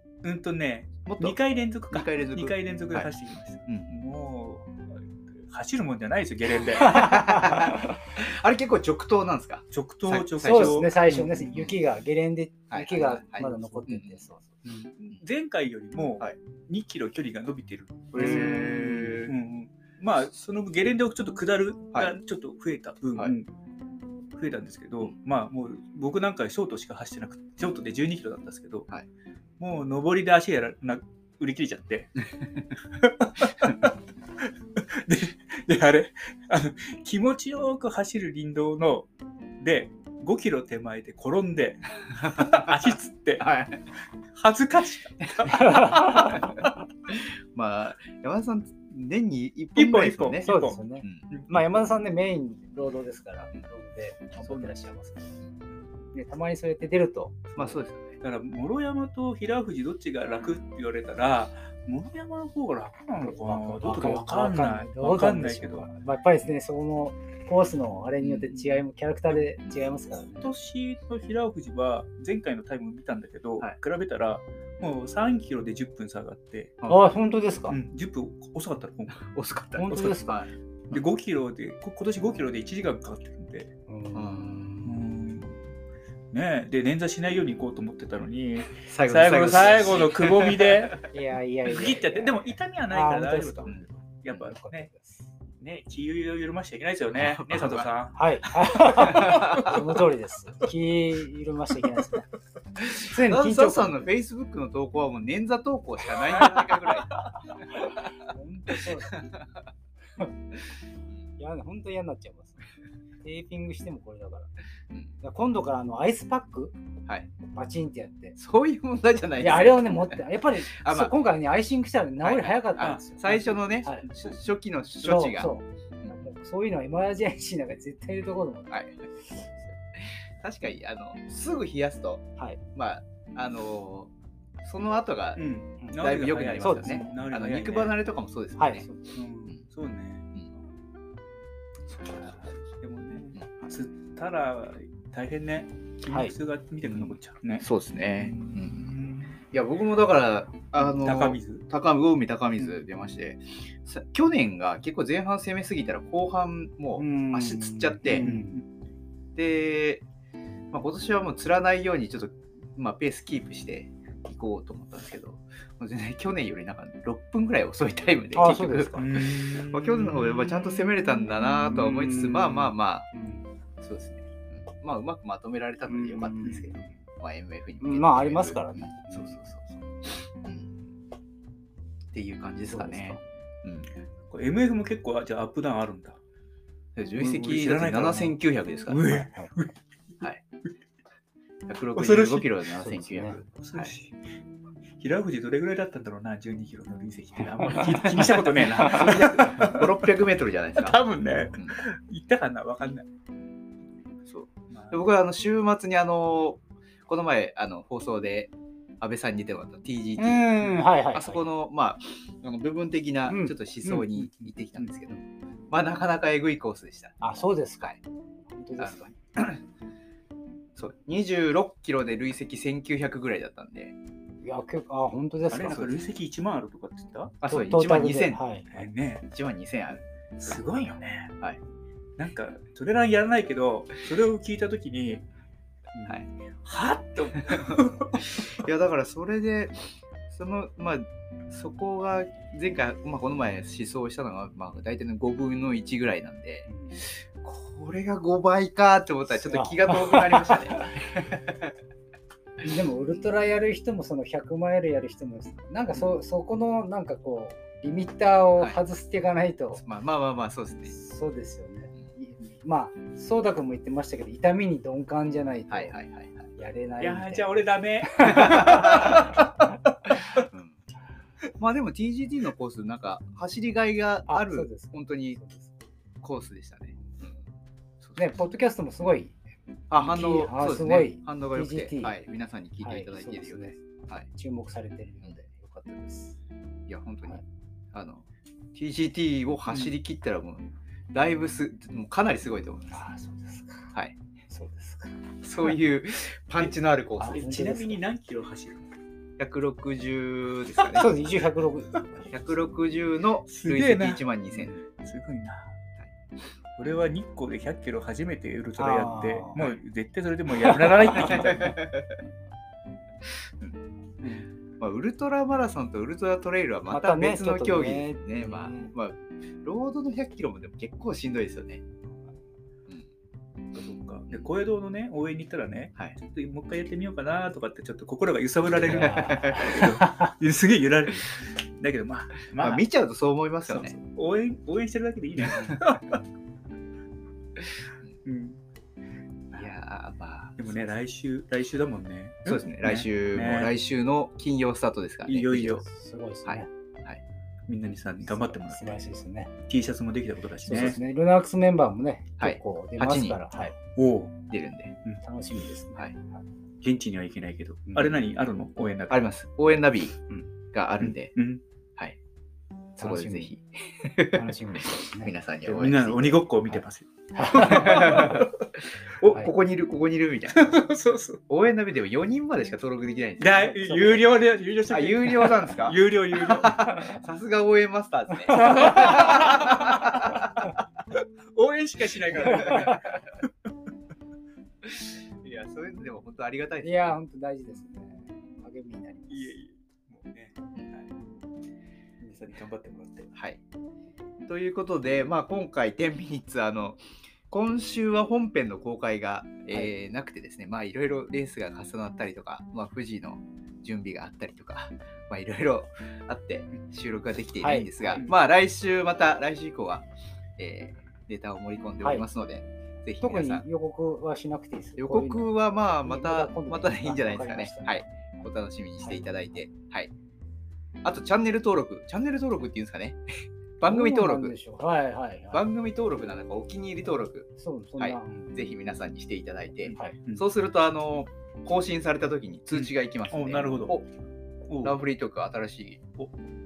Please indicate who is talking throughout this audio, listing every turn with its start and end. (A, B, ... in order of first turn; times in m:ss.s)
0:00.2-0:04.7 A
0:01.1-0:01.4 B
0:01.9-0:03.1 B
0:03.7-0:04.0 B
0:05.4-0:07.2 A
0:06.8-0:11.8 B
0:09.7-0:11.4 A
0:10.4-0:14.6 C
0:12.7-0:14.3 B
0:13.5-0:13.8 A
0:14.6-0:23.5 A
0:18.1-0:19.3 B
0:18.2-0:18.8 C
0:24.3-0:28.9 A
0:29.6-0:32.2 A
0:33.0-0:33.9 A
0:34.9-0:39.1 A
0:39.6-0:43.5 A
0:43.4-0:43.8 B
0:44.3-0:46.5 A
0:45.6-0:46.5 C
0:46.3-0:51.3 B
0:49.8-0:50.8 A
0:50.4-0:55.4 C
0:54.4-0:54.8 A
0:56.1-0:57.8 C
0:57.5-0:58.2 B
0:58.2-1:05.9 A
1:03.2-1:10.5 C
1:08.2-1:08.6 B
1:10.2-1:16.8 A
1:16.9-1:17.8 C
1:17.7-1:19.3 A
1:19.2-1:21.0 B
1:19.8-1:20.3 C
1:19.9-1:20.3 A
1:20.9-1:23.7 A
1:23.9-1:25.0 C
1:24.1-1:24.9 B
1:24.8-1:25.6 A
1:26.3-1:31.0 A
1:28.9-1:31.0 B
1:31.1-1:33.7 C
1:31.7-1:34.9 A
1:33.7-1:34.5 B
1:34.3-1:35.3 C
1:35.6-1:38.2 A
1:37.1-1:37.9 B
1:38.1-1:42.2 C
1:38.9-1:39.8 A
1:39.0-1:39.8 B
1:42.9-1:47.9 B
1:42.9-1:44.1 C
1:47.6-1:49.3 C
1:51.4-1:52.6 C
1:53.2-1:54.5 C
1:55.2-1:56.7 C
1:57.5-1:58.4 C
1:58.4-2:01.2 B
1:59.4-2:03.2 C
2:02.2-2:06.1 B
2:02.8-2:04.4 A
2:05.0-2:08.7 C
2:08.7-2:09.1 B
2:09.9-2:14.1 B
2:14.6-2:18.9 B
2:15.4-2:18.0 A
2:16.6-2:17.1 C
2:18.6-2:19.0 C
2:19.1-2:20.6 A
2:21.9-2:22.4 B
2:22.1-2:29.4 A
2:23.4-2:23.6 B
2:26.8-2:28.9 B
2:29.5-2:38.3 B
2:30.8-2:31.6 A
2:37.0-2:38.6 C
2:38.0-2:38.6 A
2:39.4-2:40.0 B
2:40.7-2:53.1 B
2:48.4-2:49.1 C
2:49.0-2:51.0 A
2:51.6-2:51.9 A
2:51.7-2:53.4 C
2:53.8-2:59.8 B
2:55.9-2:56.9 C
2:57.8-2:59.4 C
3:00.4-3:00.8 B
3:02.1-3:03.9 B
3:02.7-3:03.2 C
3:04.3-3:06.2 A
3:07.0-3:09.1 B
3:07.2-3:08.4 A
3:08.9-3:09.7 A
3:09.1-3:09.5 C
3:11.7-3:13.9 B
3:12.0-3:12.6 A
3:12.8-3:13.4 C
3:13.6-3:14.2 A
3:15.0-3:20.0 A
3:18.0-3:21.0 B
3:20.8-3:23.1 A
3:21.5-3:21.8 B
3:24.3-3:38.0 B
3:24.7-3:25.1 A
3:30.2-3:31.4 C
3:33.3-3:35.1 C
3:37.2-3:38.0 C
3:38.5-3:39.1 C
3:38.8-3:39.6 B
3:40.8-3:44.0 B
3:44.4-3:46.0 C
3:45.5-3:47.7 A
3:47.4-3:48.4 B
3:47.5-3:48.7 C
3:48.7-3:49.3 A
3:49.3-3:50.6 B
3:50.4-3:51.3 A
3:52.2-3:55.2 A
3:55.9-3:58.4 A
3:58.3-4:11.7 B
4:06.7-4:07.0 C
4:09.3-4:11.1 C
4:12.6-4:19.8 C
4:18.6-4:18.8 B
4:19.7-4:21.0 B
4:20.9-4:26.0 C
4:25.7-4:26.5 B
4:26.6-4:29.3 C
4:27.0-4:29.5 A
4:28.5-4:29.2 B
4:30.4-4:30.8 B
4:31.6-4:35.4 B
4:34.3-4:35.7 C
4:36.2-4:37.4 B
4:38.0-4:38.4 B
4:38.2-4:39.4 C
4:39.9-4:44.3 B
4:40.0-4:42.2 C
4:42.8-4:46.4 C
4:46.9-4:47.4 B
4:47.9-4:53.1 B
4:52.9-4:53.9 C
4:54.5-4:55.2 C
4:55.4-4:57.8 B
4:57.2-4:58.0 C
4:57.2-4:58.9 A
4:59.4-5:01.2 B
5:00.8-5:01.1 A
5:00.9-5:02.3 C
5:02.3-5:04.8 B
5:03.5-5:05.7 A
5:06.8-5:11.8 A
5:08.8-5:09.6 C
5:10.7-5:12.2 B
5:14.2-5:14.5 A
5:14.8-5:21.8 B
5:16.9-5:18.9 C
5:23.7-5:32.8 A
5:28.7-5:30.3 C
5:28.9-5:30.0 B
5:32.6-5:34.0 B
5:33.6-5:36.2 A
5:35.5-5:35.8 B
5:38.2-5:38.6 A
5:39.5-5:40.9 B
5:40.6-5:43.7 A
5:42.5-5:45.8 B
5:45.2-5:45.8 A
5:45.8-5:46.7 C
5:46.5-5:47.2 B
5:47.7-5:49.0 A
5:48.2-5:49.5 C
5:49.7-5:51.0 A
5:50.6-5:53.8 C
5:52.4-5:53.4 B
5:54.0-5:54.4 A
5:54.5-5:54.9 B
5:55.2-5:56.4 C
5:56.8-5:59.2 A
5:57.9-5:58.2 C
5:59.1-6:00.2 B
6:00.7-6:01.3 B
6:01.0-6:01.6 A
6:03.0-6:06.5 B
6:03.0-6:03.5 C
6:04.3-6:05.3 C
6:05.6-6:08.7 A
6:07.4-6:08.4 C
6:07.4-6:08.5 B
6:09.2-6:10.9 B
6:10.5-6:11.4 A
6:11.5-6:14.3 B
6:13.4-6:17.0 A
6:14.9-6:20.5 B
6:18.5-6:20.5 A
6:21.2-6:23.5 A
6:22.3-6:23.0 B
6:24.8-6:27.2 B
6:26.8-6:29.6 C
6:29.3-6:31.1 A
6:32.2-6:33.3 A
6:33.4-6:33.6 B
6:34.5-6:50.1 B
6:47.6-6:48.2 C
6:50.6-6:53.7 B
6:53.2-6:58.0 C
6:55.0-7:00.1 B
6:59.0-6:59.6 C
7:01.0-7:03.2 B
7:03.8-7:04.6 B
7:03.8-7:05.6 C
7:05.5-7:14.1 B
7:07.6-7:08.5 C
7:09.9-7:10.4 A
7:09.9-7:10.2 C
7:12.7-7:14.0 A
7:14.7-7:15.0 A
7:14.8-7:16.0 B